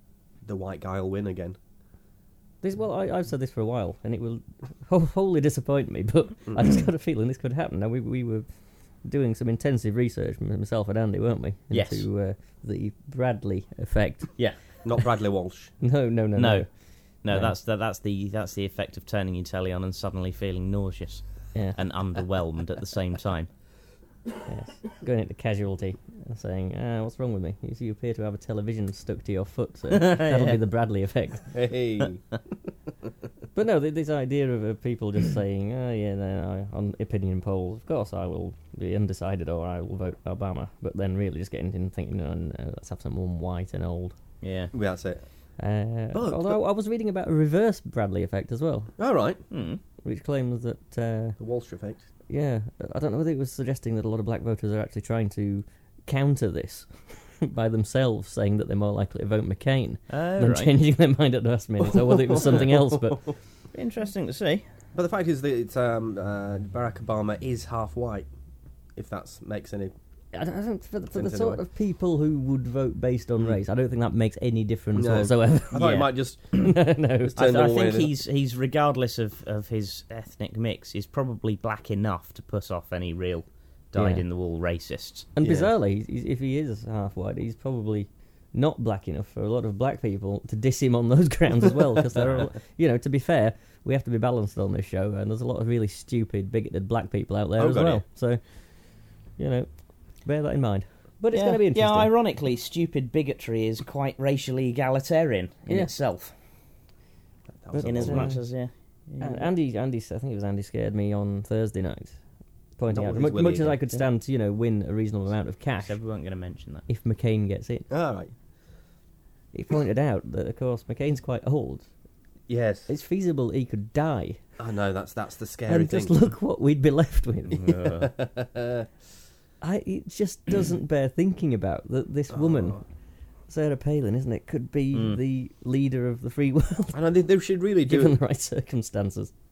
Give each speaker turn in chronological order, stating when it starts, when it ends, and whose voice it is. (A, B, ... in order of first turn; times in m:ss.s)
0:00.4-0:01.6 A
0:02.6-0:14.8 B
0:11.7-0:12.1 C
0:14.4-0:15.0 C
0:14.8-0:15.8 A
0:15.8-0:17.6 B
0:16.4-0:23.6 C
0:21.5-0:21.8 B
0:24.5-0:31.7 B
0:29.9-0:30.6 C
0:31.5-0:32.4 A
0:33.6-0:44.3 B
0:44.4-0:44.7 C
0:44.7-0:46.6 A
0:45.6-0:51.5 B
0:49.0-0:49.4 A
0:49.5-0:49.8 C
0:51.4-0:52.1 A
0:52.3-1:03.2 B
1:00.1-1:00.7 C
1:01.8-1:03.4 A
1:03.7-1:04.7 C
1:04.9-1:09.9 A
1:10.3-1:17.3 B
1:11.1-1:11.6 A
1:15.0-1:18.1 A
1:15.7-1:16.4 C
1:17.4-1:25.7 C
1:23.9-1:24.2 B
1:25.4-1:42.1 B
1:32.2-1:32.5 C
1:37.6-1:38.0 A
1:41.3-1:46.4 C
1:47.5-1:48.4 A
1:47.7-1:57.9 B
1:47.8-1:49.5 C
1:52.9-1:53.8 A
1:55.8-1:56.9 C
1:57.9-1:58.4 A
1:59.5-2:02.1 B
2:02.5-2:02.9 A
2:02.9-2:04.6 B
2:04.6-2:06.3 A
2:05.7-2:07.6 B
2:07.5-2:08.1 C
2:07.7-2:08.9 A
2:09.6-2:17.3 B
2:12.3-2:12.9 A
2:14.9-2:15.2 C
2:16.9-2:18.2 A
2:17.8-2:19.3 B